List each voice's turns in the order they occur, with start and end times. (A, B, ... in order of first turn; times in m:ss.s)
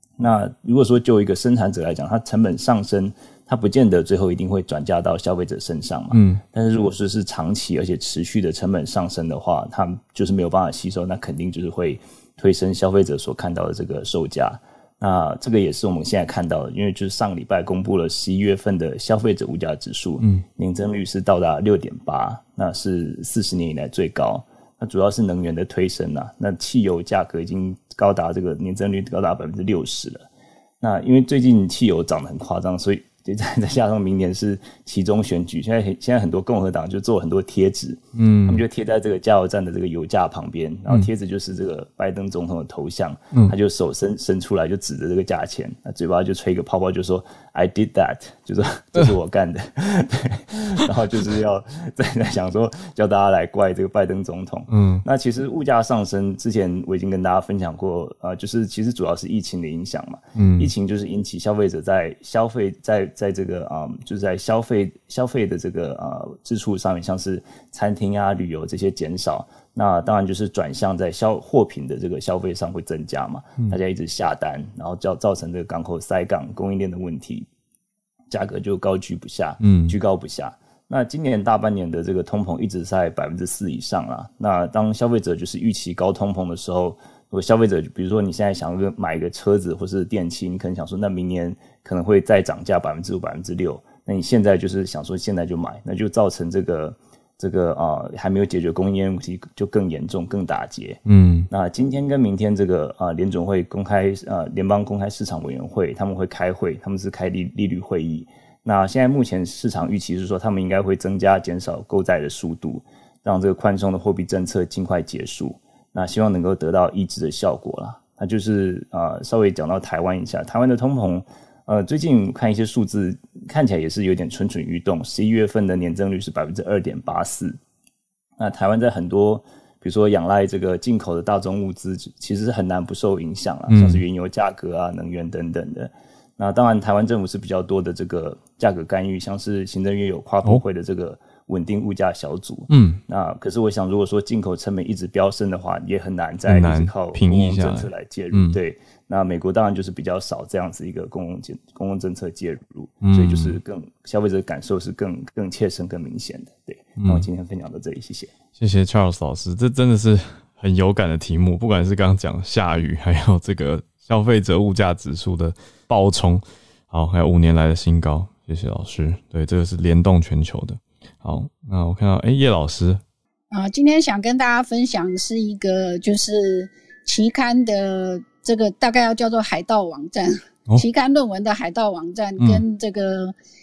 0:00.2-0:30.3 A
0:06.1-0:06.4 B
0:30.8-1:17.5 A
0:38.2-0:38.6 B
0:54.7-0:55.0 B
1:00.3-1:00.7 B
1:18.3-2:07.6 A
1:19.6-1:20.0 B
1:41.0-1:41.5 B
2:08.4-2:38.3 A
2:13.7-2:14.0 B
2:22.7-2:23.0 B
2:26.4-2:28.6 B
2:33.0-2:33.6 B
2:37.0-2:37.3 B
2:38.6-2:53.0 B
2:53.5-3:03.3 C